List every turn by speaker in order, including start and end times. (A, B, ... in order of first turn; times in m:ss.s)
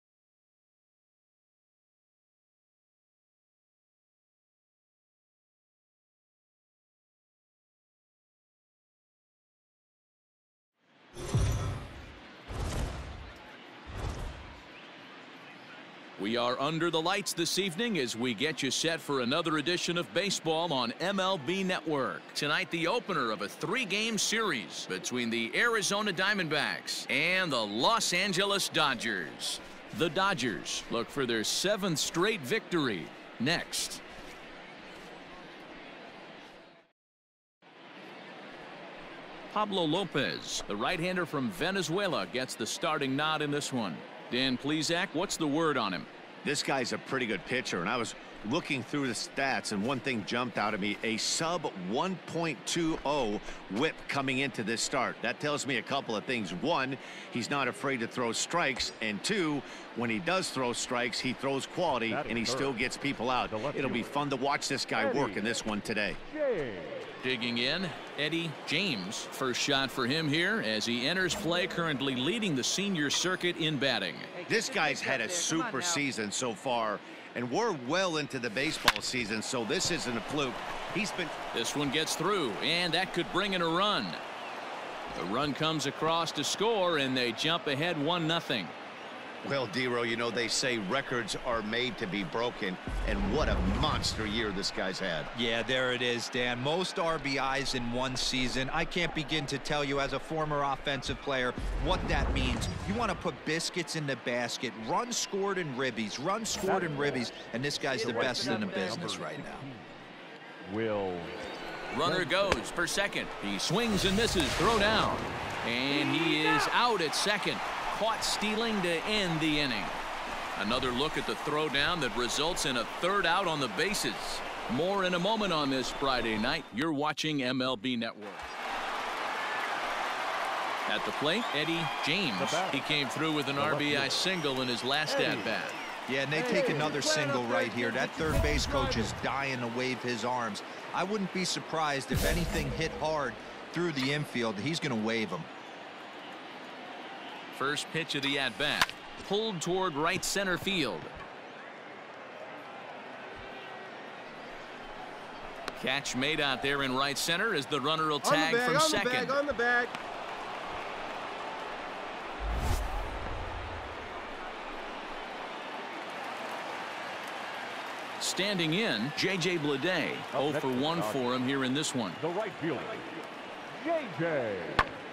0:16.2-0:34.0 A
0:39.5-0:46.1 A
0:46.4-1:06.2 B
1:02.1-1:02.8 C
1:03.5-1:04.2 C
1:05.0-1:05.5 C
1:06.3-1:07.1 C
1:07.2-1:14.3 A
1:14.3-1:16.0 D
1:14.5-1:21.4 B
1:21.5-1:24.2 A
1:25.1-1:28.8 A
1:29.4-1:35.3 B
1:35.3-1:49.7 E
1:46.6-1:47.3 C
1:47.9-1:49.2 D
1:47.9-1:50.0 C
1:50.6-1:51.3 C
1:51.9-2:00.0 A
1:52.0-1:52.6 C
1:55.9-1:56.2 C
2:00.6-2:08.4 A
2:10.9-2:15.8 A
2:12.4-2:12.9 C
2:13.6-2:14.3 C
2:15.1-2:15.6 C
2:16.1-2:25.5 E
2:16.4-2:19.1 D
2:16.5-2:17.0 C
2:27.5-2:31.1 A
2:35.8-2:39.4 A
2:38.2-2:40.0 D
2:48.2-2:52.2 A
2:50.3-2:51.3 C
2:52.2-2:53.1 C
2:53.7-2:55.0 C